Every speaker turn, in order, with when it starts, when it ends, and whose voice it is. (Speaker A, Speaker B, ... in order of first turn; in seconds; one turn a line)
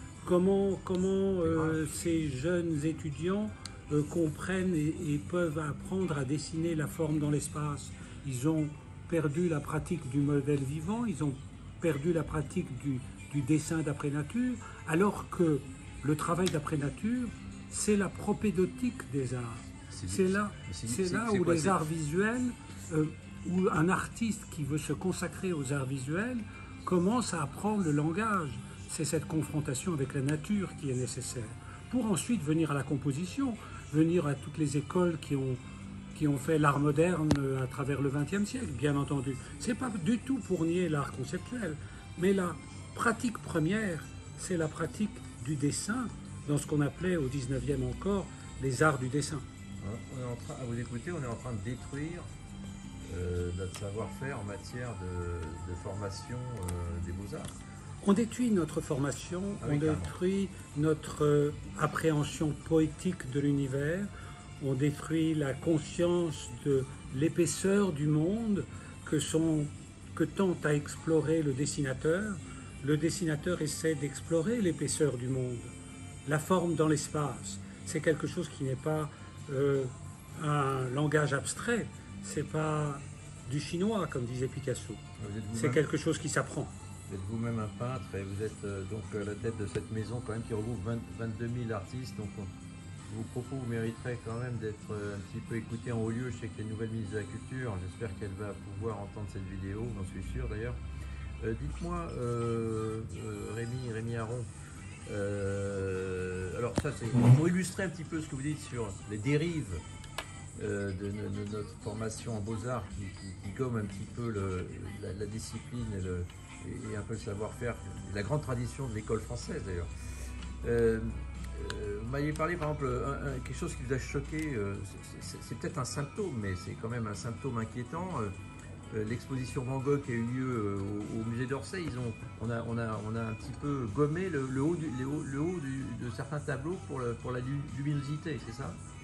Speaker A: 0.2-35.6
Speaker B: 1.4-1.8
Speaker B: 19.9-21.8
Speaker A: 36.1-49.4
Speaker B: 49.8-52.3
Speaker B: 53.1-57.6
Speaker A: 58.0-64.1
Speaker B: 59.6-60.1
Speaker A: 64.6-75.7
Speaker A: 76.2-85.0
Speaker B: 85.2-85.8
Speaker A: 85.5-86.7
Speaker B: 87.1-92.5
Speaker B: 93.0-100.8
Speaker B: 101.4-104.5
Speaker B: 105.1-109.8
Speaker B: 110.6-119.9
Speaker B: 120.6-128.3
Speaker B: 128.9-138.8